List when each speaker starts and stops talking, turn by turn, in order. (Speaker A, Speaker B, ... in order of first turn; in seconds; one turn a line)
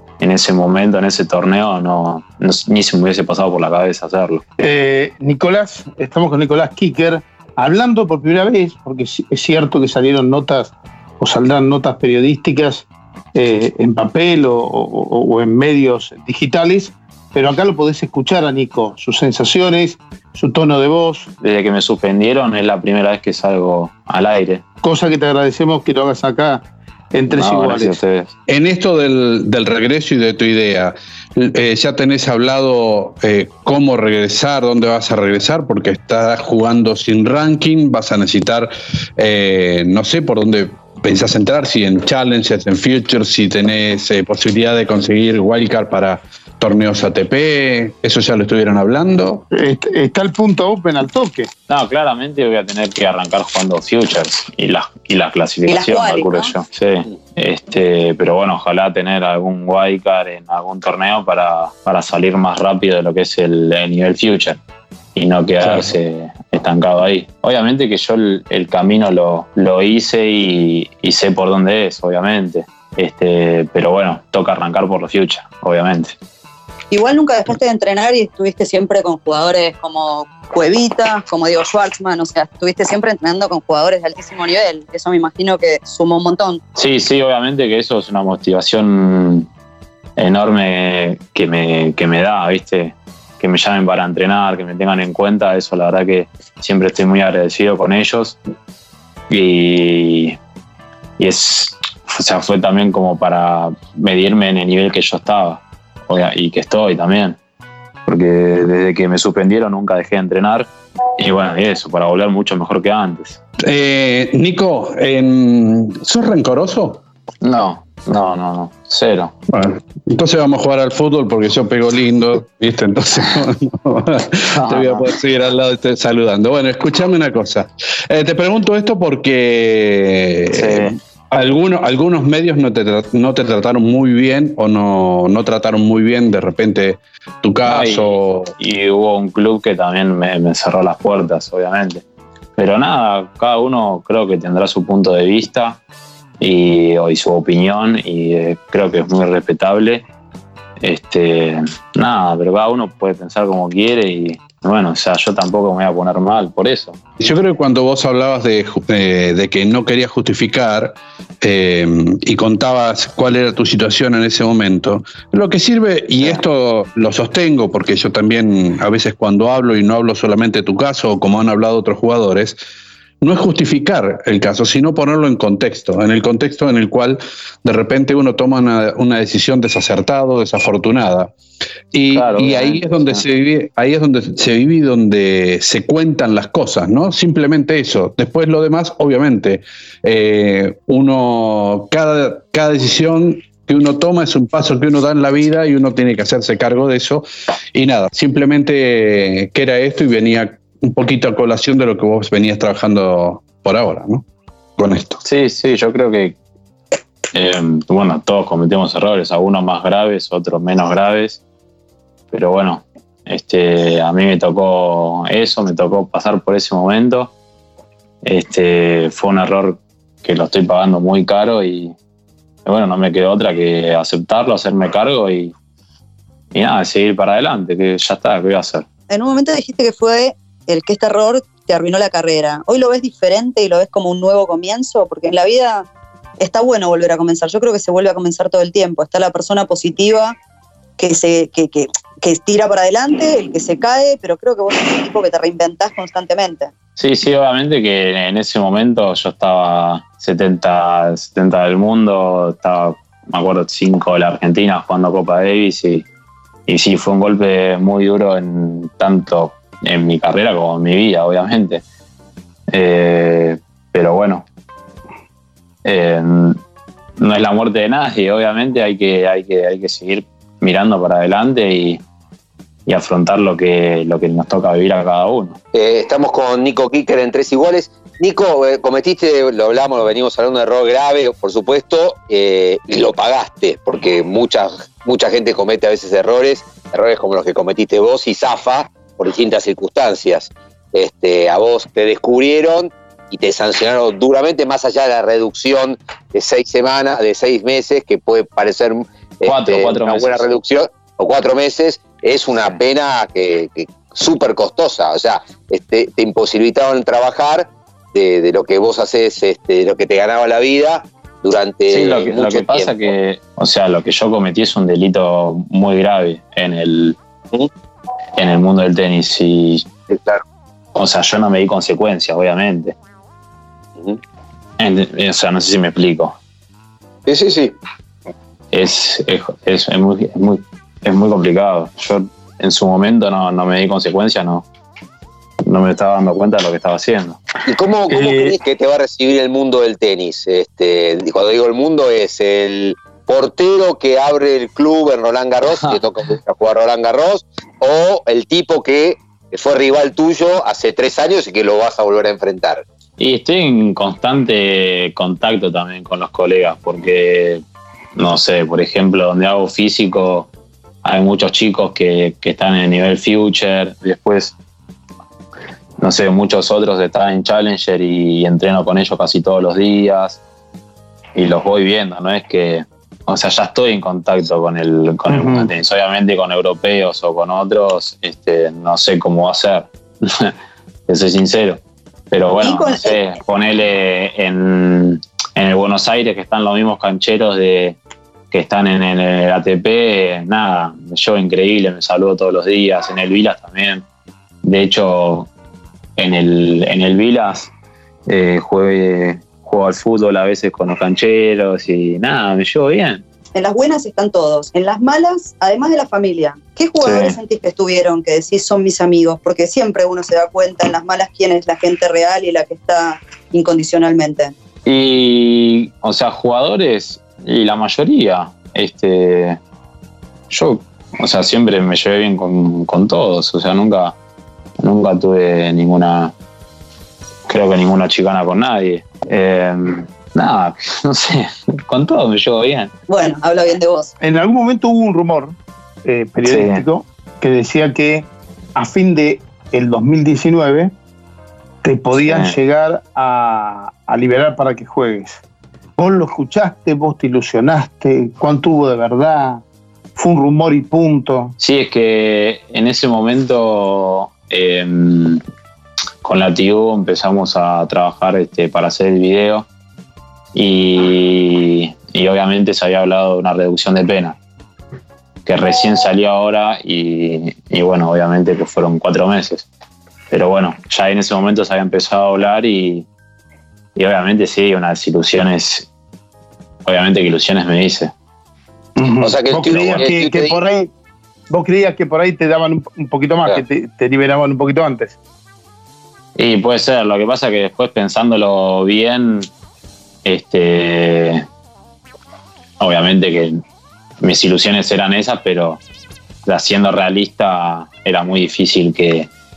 Speaker A: 0.2-4.4
Speaker B: 4.6-21.3
Speaker A: 21.4-24.6
Speaker B: 24.8-28.0
Speaker A: 27.3-28.3
Speaker C: 28.5-49.5
Speaker B: 49.5-51.5
Speaker A: 51.7-64.6
Speaker D: 55.7-56.5
Speaker A: 65.2-76.2
Speaker C: 65.6-65.9
Speaker D: 76.9-86.6
Speaker A: 86.8-89.5
Speaker A: 90.2-98.4
Speaker A: 99.3-100.4
Speaker A: 101.2-107.4
Speaker A: 108.1-113.4
Speaker C: 113.6-117.0
Speaker A: 117.4-119.3
Speaker C: 119.5-138.5
Speaker A: 124.5-125.1
Speaker A: 130.5-131.0
Speaker A: 137.7-142.0
Speaker A: 142.6-145.8
Speaker A: 146.4-150.1
Speaker A: 150.8-157.0
Speaker C: 157.2-172.6
Speaker C: 173.2-181.3
Speaker C: 181.9-204.2
Speaker A: 182.1-183.2
Speaker C: 204.8-205.2
Speaker A: 205.2-206.4
Speaker A: 207.3-211.4
Speaker A: 212.3-217.3
Speaker A: 218.2-221.9
Speaker A: 222.7-225.5
Speaker A: 226.5-228.9
Speaker D: 229.1-235.9
Speaker D: 236.4-240.3
Speaker D: 241.0-246.7
Speaker A: 247.0-256.1
Speaker A: 256.7-261.8
Speaker A: 262.7-264.4
Speaker A: 265.9-266.6
Speaker A: 267.2-272.0
Speaker A: 272.9-275.6
Speaker E: 275.7-313.1
Speaker A: 299.4-300.6
Speaker A: 311.9-317.2
Speaker A: 318.4-319.9
Speaker E: 320.1-320.4
Speaker A: 320.9-322.9
Speaker A: 324.8-326.4
Speaker E: 327.3-327.8
Speaker A: 328.7-334.7
Speaker A: 335.6-337.4
Speaker E: 337.6-352.9
Speaker B: 338.1-338.6
Speaker A: 345.7-346.0
Speaker A: 353.2-357.6
Speaker A: 358.2-360.5
Speaker A: 361.0-364.6
Speaker A: 366.0-370.4
Speaker A: 371.4-380.5
Speaker B: 375.3-375.7
Speaker A: 381.1-388.0
Speaker D: 382.6-383.2
Speaker A: 388.5-394.1
Speaker A: 394.6-395.5
Speaker A: 396.2-397.7
Speaker A: 398.3-403.2
Speaker D: 403.6-414.5
Speaker A: 407.0-407.4
Speaker A: 414.9-419.6
Speaker A: 420.5-424.1
Speaker A: 424.8-426.3
Speaker A: 427.5-432.9
Speaker D: 433.1-434.1
Speaker B: 434.2-440.9
Speaker A: 436.4-436.8
Speaker B: 441.8-445.4
Speaker A: 442.2-442.6
Speaker B: 446.0-449.6
Speaker B: 450.2-451.5
Speaker A: 451.6-455.4
Speaker A: 456.2-459.7
Speaker A: 460.5-464.4
Speaker A: 465.5-469.7
Speaker A: 470.3-473.1
Speaker A: 474.0-475.9
Speaker A: 476.9-478.1
Speaker B: 479.0-480.9
Speaker E: 479.2-480.6
Speaker A: 479.7-480.0
Speaker B: 481.5-485.2
Speaker A: 486.4-489.5
Speaker A: 490.2-491.5
Speaker A: 492.8-493.6
Speaker A: 494.2-495.8
Speaker A: 496.4-499.3